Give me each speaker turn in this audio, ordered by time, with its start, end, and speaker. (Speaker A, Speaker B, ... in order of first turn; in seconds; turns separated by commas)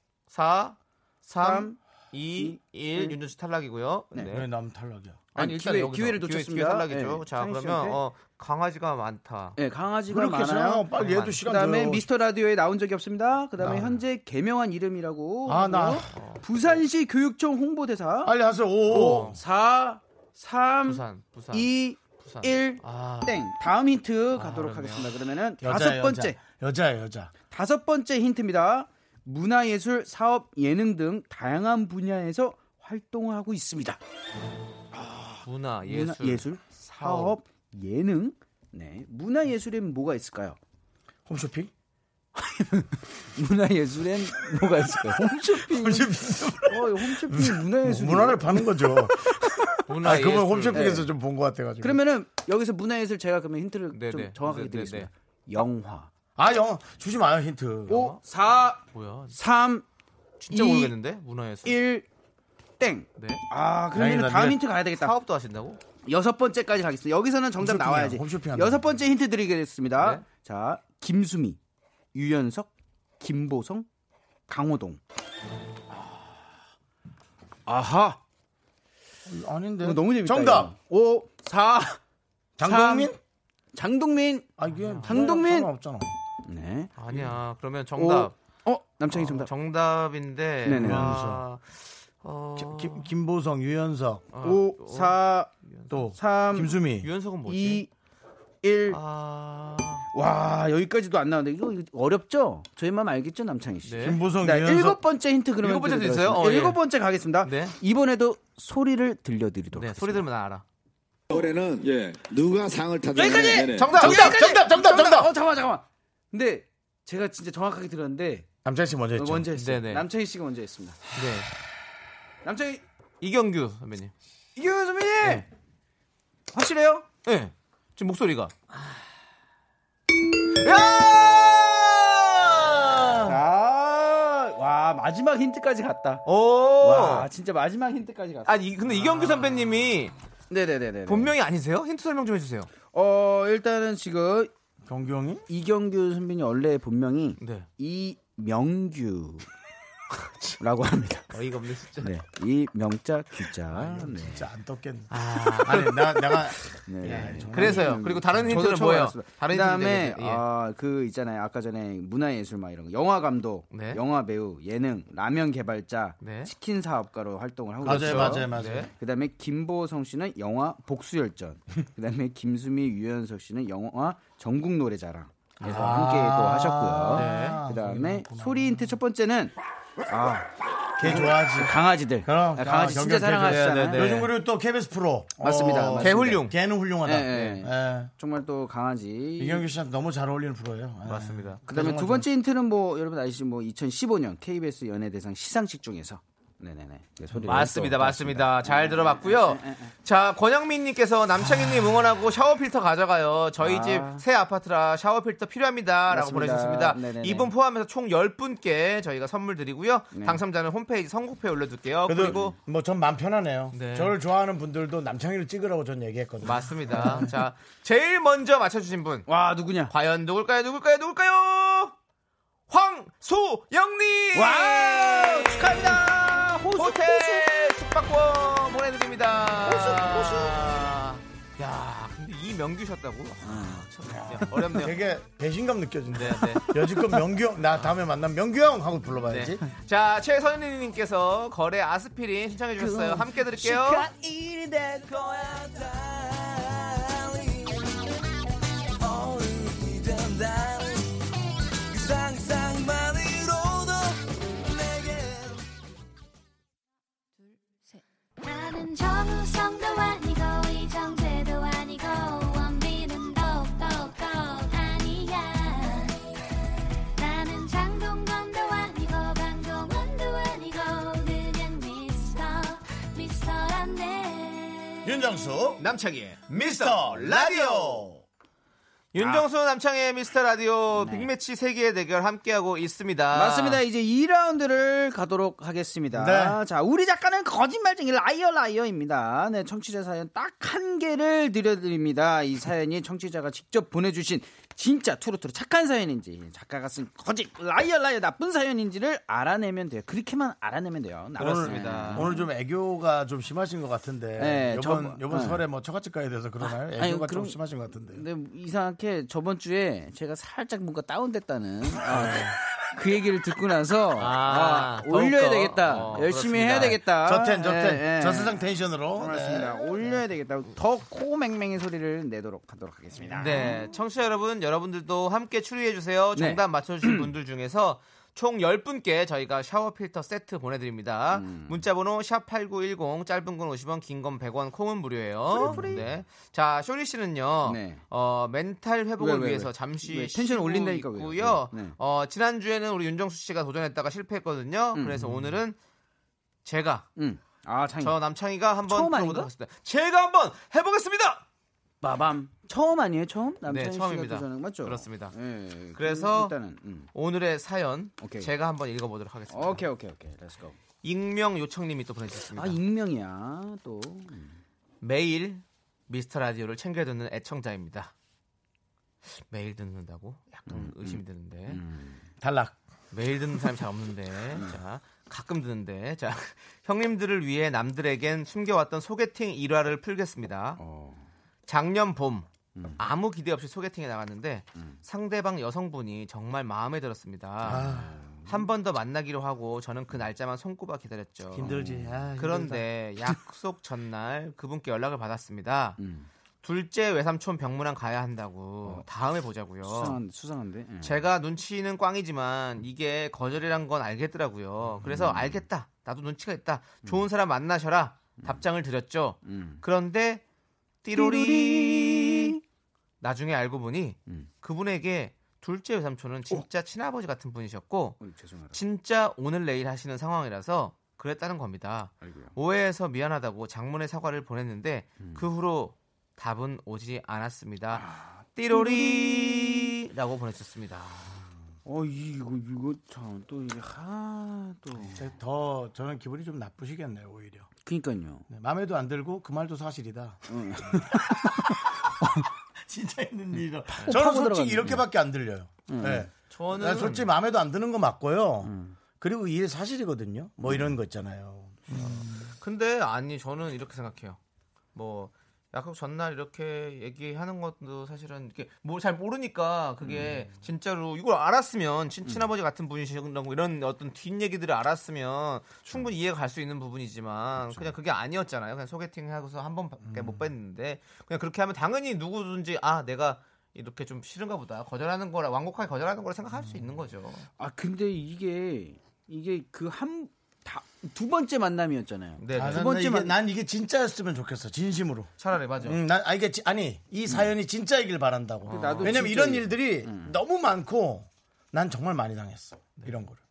Speaker A: 0.3-4.5, Speaker B: 1.4-1.8, Speaker B: 2.4-3.2, Speaker B: 4.1-4.4, Speaker C: 4.3-5.3, Speaker B: 5.3-8.0, Speaker A: 5.3-9.6, Speaker B: 9.6-18.3, Speaker C: 10.1-12.1, Speaker A: 10.9-11.4, Speaker C: 13.6-13.9, Speaker C: 15.4-16.1, Speaker A: 16.0-16.8, Speaker C: 18.2-19.4, Speaker A: 18.9-19.4, Speaker B: 18.9-26.4, Speaker A: 20.8-23.4, Speaker A: 24.3-25.1, Speaker C: 25.6-27.3, Speaker B: 27.4-34.0, Speaker B: 34.9-40.6, Speaker A: 35.4-37.4, Speaker C: 41.3-41.7, Speaker B: 42.4-49.7, Speaker C: 45.6-52.0, Speaker A: 49.9-51.0, Speaker B: 50.7-51.1, Speaker B: 51.8-56.1, Speaker A: 53.9-55.1, Speaker C: 56.4-58.1, Speaker B: 57.9-58.8, Speaker A: 57.9-58.2, Speaker A: 58.8-59.4, Speaker B: 59.3-59.8, Speaker A: 60.4-61.8, Speaker B: 60.5-60.9, Speaker B: 61.6-62.0, Speaker B: 62.8-65.1, Speaker A: 63.2-63.4, Speaker C: 63.9-64.6, Speaker A: 64.9-65.8, Speaker B: 66.0-71.6, Speaker C: 67.6-68.8, Speaker B: 72.1-73.9, Speaker B: 74.5-75.0, Speaker B: 77.7-78.2, Speaker C: 79.2-80.7, Speaker B: 79.8-82.0, Speaker C: 82.6-83.2, Speaker B: 82.6-83.1, Speaker B: 83.7-84.5, Speaker C: 84.6-86.2, Speaker A: 84.7-85.2, Speaker B: 85.0-85.7, Speaker B: 86.4-87.3, Speaker A: 87.0-88.3, Speaker B: 88.0-89.5, Speaker A: 89.1-93.1, Speaker B: 90.6-91.3, Speaker C: 90.8-91.4, Speaker C: 92.5-94.3, Speaker A: 94.3-96.0, Speaker B: 94.4-95.5, Speaker C: 95.9-97.1, Speaker B: 96.1-96.7, Speaker A: 97.0-97.8, Speaker B: 97.4-97.9, Speaker B: 98.6-99.0, Speaker A: 98.9-100.1, Speaker B: 100.1-110.2, Speaker A: 103.8-104.2, Speaker C: 104.0-105.0, Speaker A: 105.6-106.8, Speaker A: 107.4-107.8, Speaker A: 109.7-110.6, Speaker D: 111.3-114.1, Speaker B: 113.1-118.5, Speaker A: 113.6-114.6, Speaker C: 114.0-115.3, Speaker C: 118.6-119.5, Speaker B: 119.2-121.1, Speaker A: 119.5-120.0, Speaker A: 121.1-121.5, Speaker B: 122.4-122.8, Speaker A: 123.2-124.1, Speaker B: 124.5-125.5, Speaker B: 126.5-127.0, Speaker A: 127.2-128.5, Speaker A: 130.6-133.3, Speaker B: 133.2-136.2, Speaker A: 136.2-137.3, Speaker B: 136.8-139.6, Speaker A: 138.4-140.1, Speaker B: 140.5-141.3, Speaker A: 141.1-142.7, Speaker B: 142.9-144.5, Speaker C: 144.8-145.4, Speaker B: 145.5-149.5, Speaker A: 147.4-147.7, Speaker B: 150.6-151.3, Speaker A: 151.3-152.1, Speaker B: 152.0-154.5, Speaker C: 153.7-158.5, Speaker A: 155.1-160.4, Speaker B: 156.8-179.5, Speaker A: 163.7-164.0, Speaker A: 166.2-166.5, Speaker C: 167.8-168.9, Speaker A: 167.8-168.9, Speaker C: 175.6-178.9, Speaker A: 177.1-177.6, Speaker B: 180.1-184.2, Speaker C: 181.0-188.1, Speaker A: 183.4-184.3, Speaker B: 185.4-186.5, Speaker A: 186.0-186.6, Speaker B: 187.0-189.6, Speaker C: 189.4-192.3, Speaker A: 191.1-191.6, Speaker B: 191.7-199.9, Speaker A: 197.3-212.6, Speaker B: 203.6-204.2, Speaker B: 206.1-207.5, Speaker B: 210.1-210.4, Speaker C: 212.1-217.3, Speaker A: 213.7-214.2, Speaker A: 216.4-219.3, Speaker B: 216.9-217.3, Speaker B: 219.3-219.9, Speaker A: 219.9-221.9, Speaker A: 222.7-226.1, Speaker B: 224.3-227.4, Speaker A: 226.7-234.9, Speaker B: 229.6-230.6, Speaker B: 233.4-234.8, Speaker C: 234.7-239.6, Speaker A: 236.1-236.6, Speaker A: 239.3-244.1, Speaker B: 242.8-247.8, Speaker B: 249.0-250.9, Speaker B: 251.9-255.5, Speaker E: 258.4-266.4, Speaker E: 267.2-275.1, Speaker C: 275.0-275.9, Speaker A: 275.8-278.1, Speaker C: 276.5-278.2, Speaker A: 279.1-283.8, Speaker B: 280.9-281.3, Speaker B: 283.3-302.5, Speaker C: 286.1-286.6, Speaker C: 301.4-308.2, Speaker A: 301.4-302.4, Speaker B: 304.4-305.6, Speaker B: 306.6-318.6, Speaker A: 314.2-317.0, Speaker C: 317.2-320.2, Speaker B: 319.1-323.9, Speaker A: 323.3-345.8, Speaker B: 326.4-327.3, Speaker B: 331.3-331.8, Speaker B: 335.5-336.2, Speaker B: 337.6-338.0, Speaker B: 339.2-341.9, Speaker B: 344.9-345.6, Speaker A: 346.6-347.1, Speaker B: 347.1-348.2, Speaker A: 348.0-351.4, Speaker B: 348.9-349.5, Speaker B: 352.0-357.1, Speaker A: 353.6-355.4, Speaker A: 355.9-356.5, Speaker A: 357.1-359.8, Speaker B: 358.2-358.5, Speaker B: 359.5-360.8, Speaker A: 361.0-362.8, Speaker B: 362.5-364.6, Speaker A: 365.0-368.1, Speaker A: 369.2-371.8, Speaker B: 370.7-372.2, Speaker C: 372.4-372.8, Speaker A: 373.1-380.8, Speaker B: 374.5-374.8, Speaker B: 380.8-381.3, Speaker A: 381.7-391.8, Speaker B: 382.7-383.0, Speaker C: 387.6-388.2, Speaker B: 387.7-388.6, Speaker C: 391.5-392.8, Speaker B: 391.6-392.2, Speaker A: 392.4-396.0, Speaker B: 396.0-396.3, Speaker A: 396.6-400.2, Speaker B: 399.8-401.2, Speaker A: 401.0-410.4, Speaker B: 405.0-405.6, Speaker B: 408.4-408.6, Speaker B: 409.4-409.8, Speaker A: 411.0-412.6, Speaker B: 411.1-412.6, Speaker A: 413.2-418.2, Speaker B: 418.2-418.8, Speaker A: 418.7-431.4, Speaker B: 422.2-422.5, Speaker B: 425.2-425.4, Speaker B: 427.9-430.0, Speaker B: 431.8-435.2, Speaker C: 435.1-437.7, Speaker B: 437.8-438.5, Speaker C: 438.5-441.9, Speaker B: 440.5-442.5, Speaker C: 442.8-452.5, Speaker B: 443.9-445.0, Speaker B: 445.9-446.3, Speaker A: 446.5-447.3, Speaker B: 448.6-449.0, Speaker A: 451.9-454.4, Speaker A: 454.9-477.5, Speaker B: 460.0-460.5, Speaker B: 467.6-467.9, Speaker C: 470.1-470.4, Speaker B: 477.6-483.4, Speaker A: 482.4-482.9, Speaker C: 482.5-493.4, Speaker A: 485.4-486.0, Speaker A: 488.6-489.3, Speaker B: 488.6-490.3